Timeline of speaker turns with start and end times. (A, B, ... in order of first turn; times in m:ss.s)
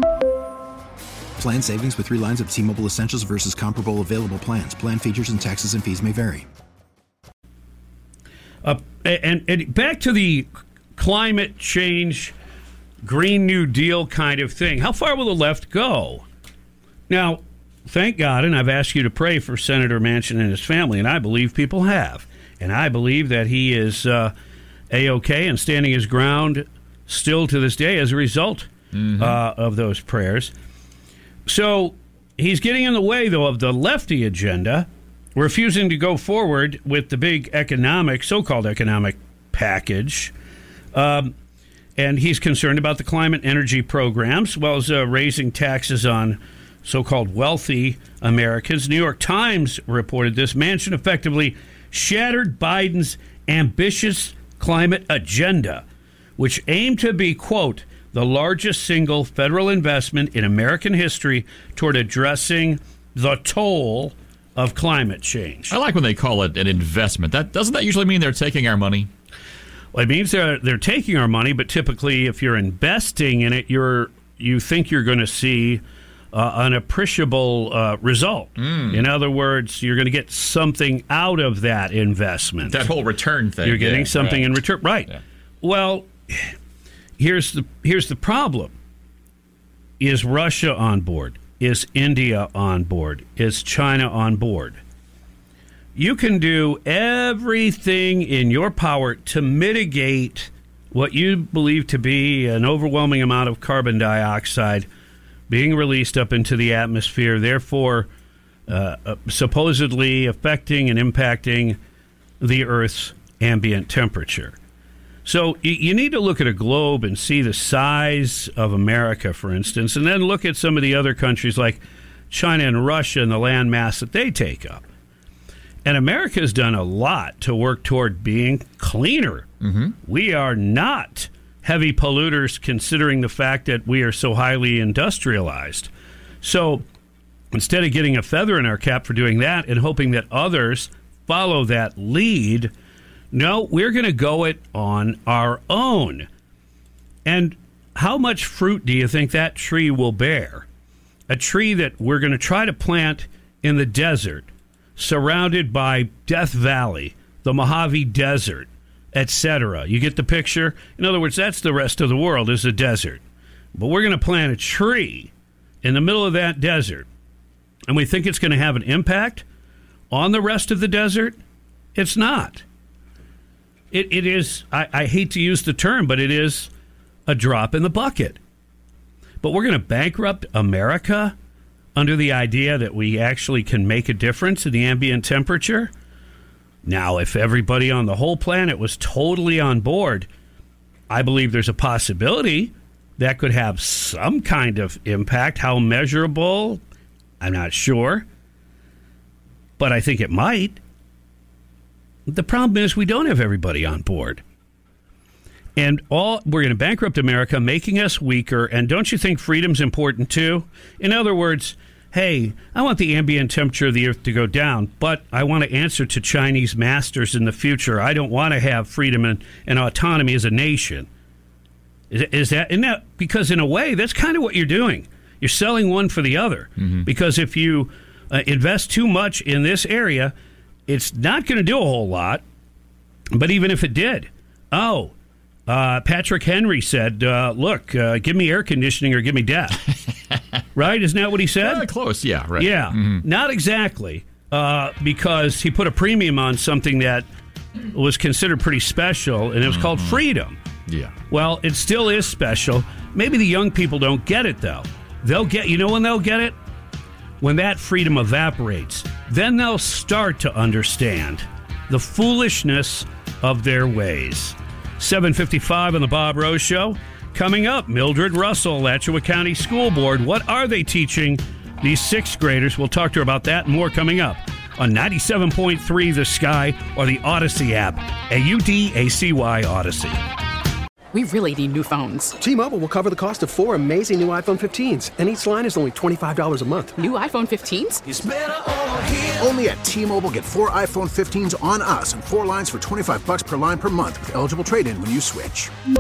0:01.4-0:06.4 A
0:08.6-0:12.3 B
0:13.0-0:16.2 B
0:17.1-0:24.3 B
0:24.9-0:30.5 B
0:31.5-0:40.3 B
0:40.9-0:41.3 B
0:42.0-0:55.8 B
0:56.4-1:05.7 B
1:05.7-1:09.1 C
1:09.9-1:22.9 B
1:18.6-1:19.0 C
1:22.7-1:24.5 C
1:23.6-1:26.5 B
1:27.2-1:28.7 B
1:30.0-1:34.8 B
1:36.0-1:44.9 B
1:45.5-1:48.1 B
1:48.7-1:51.8 B
1:52.4-1:54.6 B
1:55.2-2:04.9 B
2:05.8-2:15.9 B
2:16.4-2:16.8 B
2:17.5-2:22.7 B
2:23.3-2:26.3 B
2:27.2-2:30.7 B
2:31.3-2:43.2 B
2:43.7-2:45.3 B
2:45.8-2:47.1 B
2:47.9-2:49.4 B
2:50.1-2:51.4 B
2:51.9-2:52.6 B
2:53.9-2:56.7 B
2:57.3-2:58.4 B
2:59.4-3:01.3 B
3:01.9-3:05.9 B
3:06.8-3:10.3 B
3:11.1-3:16.8 B
3:17.4-3:18.2 B
3:19.8-3:20.8 B
3:22.3-3:24.4 B
3:25.8-3:41.1 B
3:42.1-3:50.3 B
3:50.9-3:52.4 B
3:53.3-3:55.1 B
3:55.7-3:59.8 B
4:00.8-4:01.9 B
4:01.6-4:03.2 C
4:02.6-4:07.3 B
4:07.8-4:10.6 B
4:09.7-4:10.2 C
4:10.9-4:11.1 C
4:11.3-4:16.6 B
4:17.4-4:40.2 B
4:41.1-4:42.3 D
4:42.4-4:47.0 E
4:47.0-4:48.0 D
4:48.1-4:55.7 F